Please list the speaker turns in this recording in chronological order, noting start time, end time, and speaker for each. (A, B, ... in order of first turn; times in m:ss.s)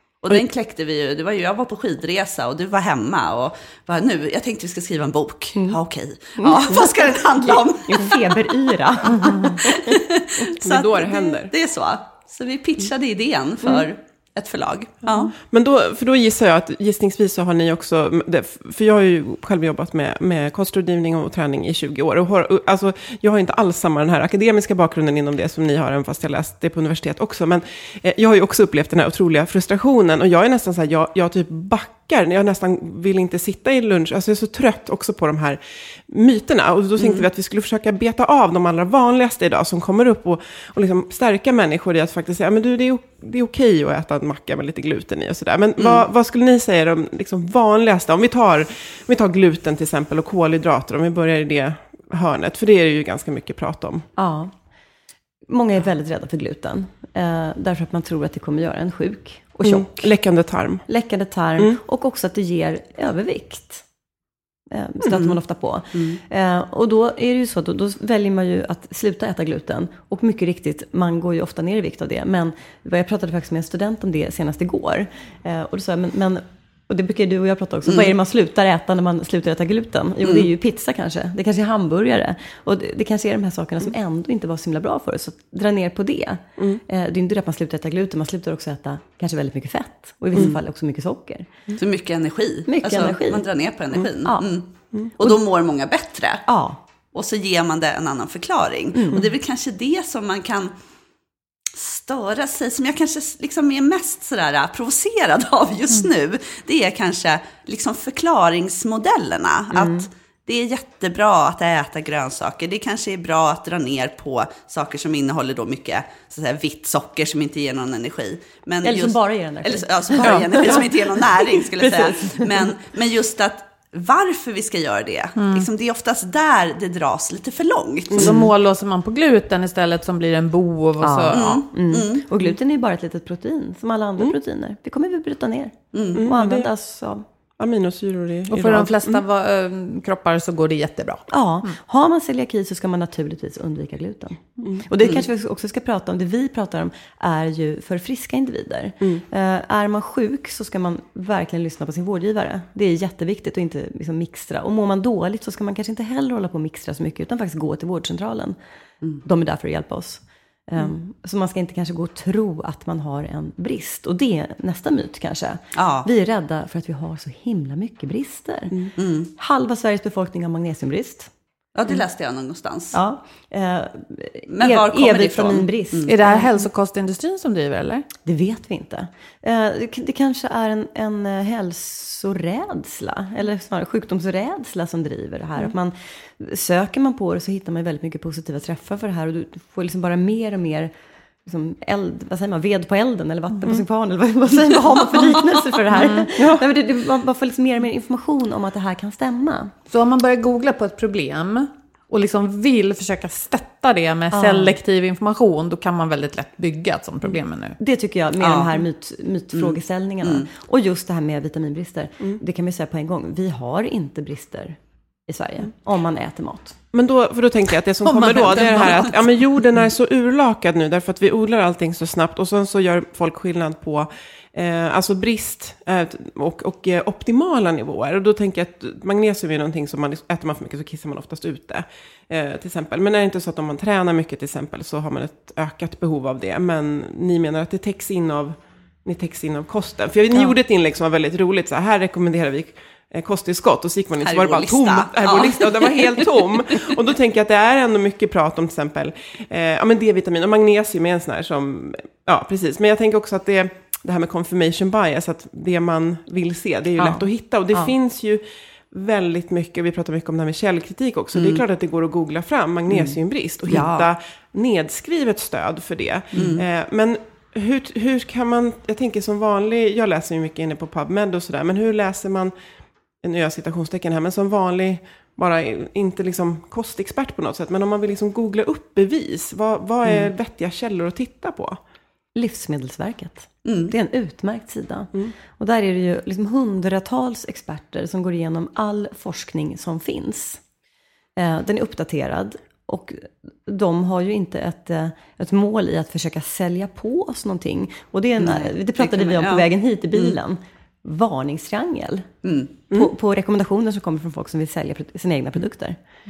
0:00.2-0:08.3 A
0:05.6-0:05.8 B
0:06.4-0:09.9 B
0:09.6-0:15.3 A
0:10.6-0:11.5 C
0:15.4-0:54.1 C
0:37.0-0:37.3 A
0:45.8-0:46.0 A
0:54.2-0:54.5 B
0:55.5-1:00.1 B
0:59.6-1:00.8 C
1:00.9-1:03.8 B
1:04.7-1:31.5 B
1:06.0-1:06.2 A
1:20.2-1:20.5 A
1:31.8-1:36.5 A
1:32.7-1:33.4 B
1:36.5-1:36.8 B
1:37.1-1:40.7 A
1:38.9-1:39.3 B
1:41.7-2:08.4 A
1:49.7-1:50.1 B
1:58.8-2:02.7 B
2:00.2-2:00.8 C
2:05.4-2:05.7 D
2:08.1-2:08.4 C
2:08.2-2:11.6 D
2:11.0-2:17.2 B
2:11.3-2:12.3 A
2:15.9-2:16.2 A
2:16.2-2:16.7 C
2:17.6-2:19.2 C
2:18.5-2:21.7 D
2:21.3-2:38.6 B
2:39.2-2:51.3 B
2:45.8-2:46.1 A
2:49.0-2:49.3 A
2:51.8-2:53.0 A
2:52.9-2:56.5 B
2:54.5-2:56.1 A
2:56.1-2:58.0 D
2:58.3-3:10.9 B
3:11.4-3:19.7 B
3:16.0-3:16.6 C
3:19.9-3:27.8 D
3:24.3-3:24.8 B
3:27.8-3:36.8 B
3:28.4-3:28.8 A
3:29.5-3:30.5 A
3:36.9-4:32.5 C
3:38.1-3:39.1 D
4:04.2-4:06.9 A
4:21.3-4:21.6 A
4:22.9-4:23.2 B
4:23.7-4:24.1 A
4:26.4-4:26.6 A
4:33.2-4:41.8 C
4:42.4-4:50.6 B
4:43.6-4:43.9 A
4:51.4-5:02.3 B
4:58.4-5:00.4 A
5:02.4-5:03.0 A
5:02.9-5:06.0 B